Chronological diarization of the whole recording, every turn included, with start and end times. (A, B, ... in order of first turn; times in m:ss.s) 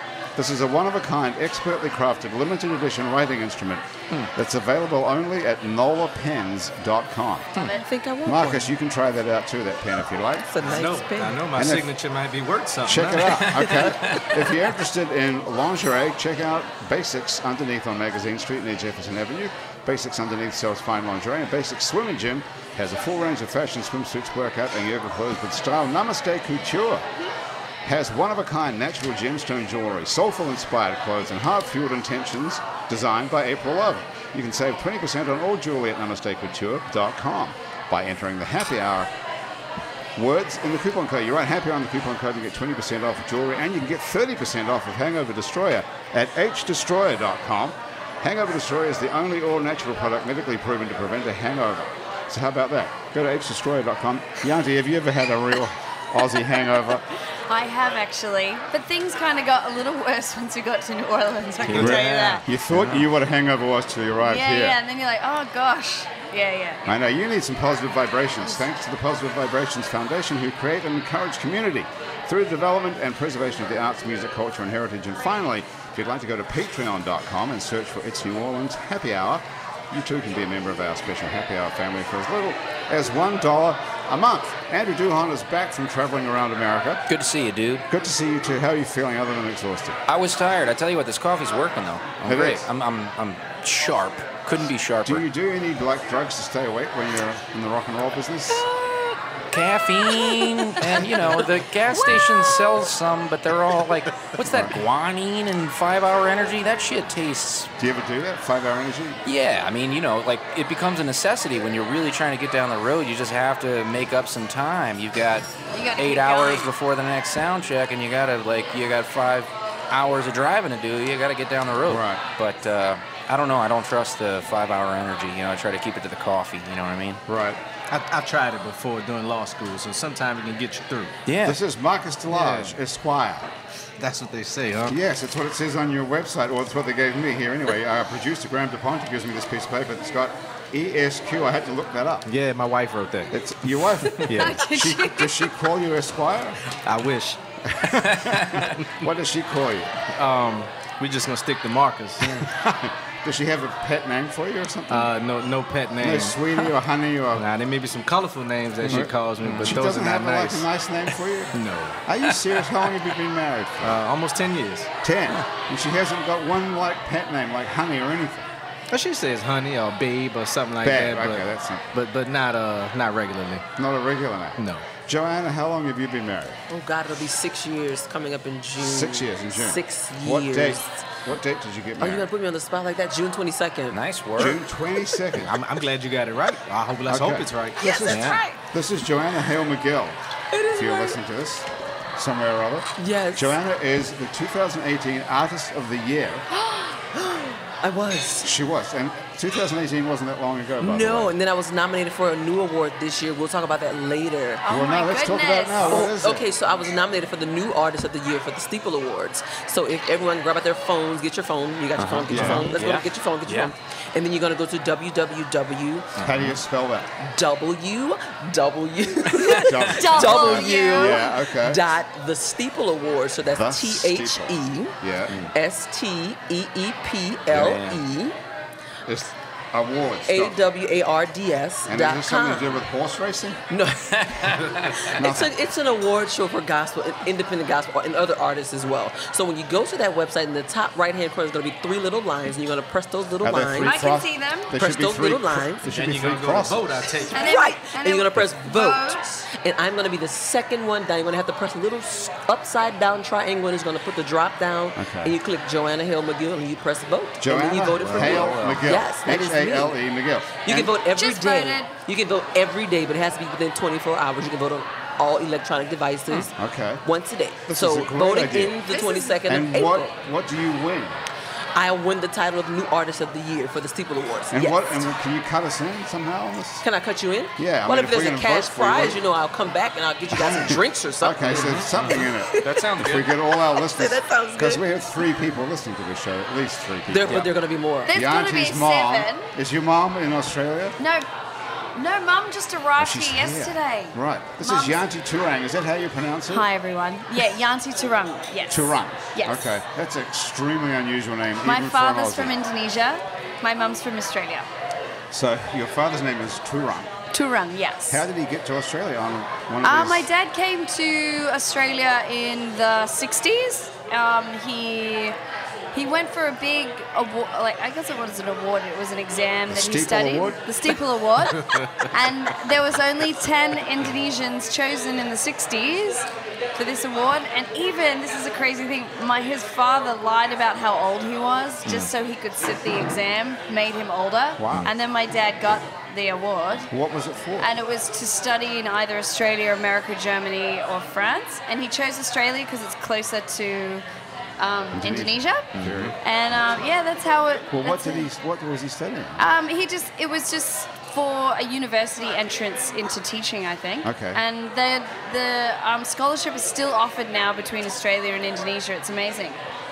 0:00.4-0:07.6 A
0:07.6-0:08.7 B
0:08.2-0:10.6 A
0:10.5-0:11.4 B
0:10.6-0:13.4 C
0:11.5-0:11.9 A
0:12.8-0:27.0 A
0:13.6-0:14.3 D
0:13.6-0:14.2 B
0:27.8-0:39.1 A
0:40.2-0:57.0 A
0:57.5-1:02.4 E
1:01.6-1:02.0 D
1:01.7-1:02.4 C
1:01.7-1:04.8 A
1:02.7-1:03.0 D
1:04.2-1:06.9 E
1:06.8-1:27.0 A
1:27.1-1:27.8 D
1:27.9-1:30.0 A
1:30.1-1:35.2 D
1:32.2-1:32.7 A
1:35.0-1:38.7 A
1:39.5-1:47.7 D
1:44.4-1:44.8 A
1:47.8-1:49.2 A
1:49.2-2:07.2 D
1:55.7-1:56.7 E
2:01.9-2:02.2 A
2:07.3-2:07.6 A
2:07.9-2:11.2 C
2:11.2-2:11.6 D
2:11.4-2:13.5 A
2:12.3-2:12.8 C
2:14.0-2:15.0 C
2:14.9-2:22.3 A
2:22.3-2:23.4 C
2:23.3-2:26.6 A
2:24.2-2:24.6 C
2:24.2-2:25.3 E
2:26.8-2:27.4 C
2:27.7-2:29.9 A
2:28.1-2:28.7 D
2:30.1-2:32.4 C
2:32.2-2:35.1 A
2:34.9-2:36.4 C
2:36.0-2:37.5 A
2:37.4-2:40.7 C
2:38.8-2:39.8 D
2:38.9-2:44.0 A
2:41.5-2:42.0 C
2:43.8-2:44.9 C
2:45.0-2:48.5 A
2:48.9-2:53.6 C
2:50.8-2:51.8 A
2:53.8-2:56.6 A
2:54.6-2:54.9 C
2:56.7-3:01.0 B
2:58.8-3:02.3 A
3:02.0-3:04.6 B
3:03.9-3:04.6 D
3:04.4-3:05.5 A
3:05.3-3:07.8 C
3:07.1-3:10.2 A
3:07.8-3:08.5 B
3:08.0-3:08.4 D
3:10.5-3:11.2 B
3:10.7-3:16.4 A
3:13.0-3:13.6 B
3:17.1-3:18.5 B
3:18.4-3:21.3 A
3:20.8-3:24.6 B
3:24.6-3:25.9 E
3:24.7-3:26.5 A
3:25.8-3:36.2 B
3:32.0-3:33.7 D
3:32.3-3:32.7 A
3:36.2-3:36.5 D
3:36.2-3:37.1 A
3:37.2-3:45.0 B
3:39.4-3:39.7 D
3:39.5-3:41.8 A
3:39.9-3:41.3 E
3:43.5-3:45.4 A
3:45.5-3:48.4 B
3:47.5-3:48.0 D
3:49.1-3:50.5 A
3:50.2-3:52.8 B
3:51.9-3:53.6 A
3:53.7-4:04.0 B
3:54.1-3:55.1 D
3:55.1-3:55.6 A
4:03.4-4:07.0 A
4:03.8-4:04.7 E
4:04.8-4:05.8 B
4:05.8-4:07.6 C
4:07.3-4:09.4 E
4:07.3-4:19.9 B
4:14.9-4:15.4 A
4:17.4-4:21.0 A
4:17.9-4:18.9 D
4:20.6-4:30.1 B
4:21.2-4:21.9 E
4:26.6-4:27.0 A
4:27.7-4:28.8 A
4:28.9-4:29.4 E
4:29.4-4:31.2 A
4:31.7-4:35.0 B
4:34.5-4:36.8 A
4:36.8-4:44.9 B
4:37.6-4:39.2 A
4:40.3-4:47.5 A
4:41.5-4:43.3 D
4:47.1-4:48.1 B
4:48.1-4:49.5 E
4:48.1-4:51.0 A
4:51.0-4:51.2 E
4:51.9-4:55.0 E
4:53.0-4:56.7 A
4:56.5-4:59.6 E
4:58.7-5:02.6 A
5:01.6-5:04.7 E
5:05.3-5:07.1 A
5:07.3-5:08.2 E
5:08.1-5:10.3 A
5:09.8-5:15.4 E
5:15.9-5:36.9 E
5:19.7-5:20.6 A
5:31.8-5:32.1 D
5:34.6-5:34.9 A
5:36.9-5:37.7 A
5:37.6-5:44.0 E
5:44.6-5:45.7 E
5:44.9-5:46.9 A
5:45.7-5:46.1 D
5:46.2-5:48.3 E
5:47.7-5:49.4 A
5:49.4-5:59.6 E
5:54.0-5:54.4 A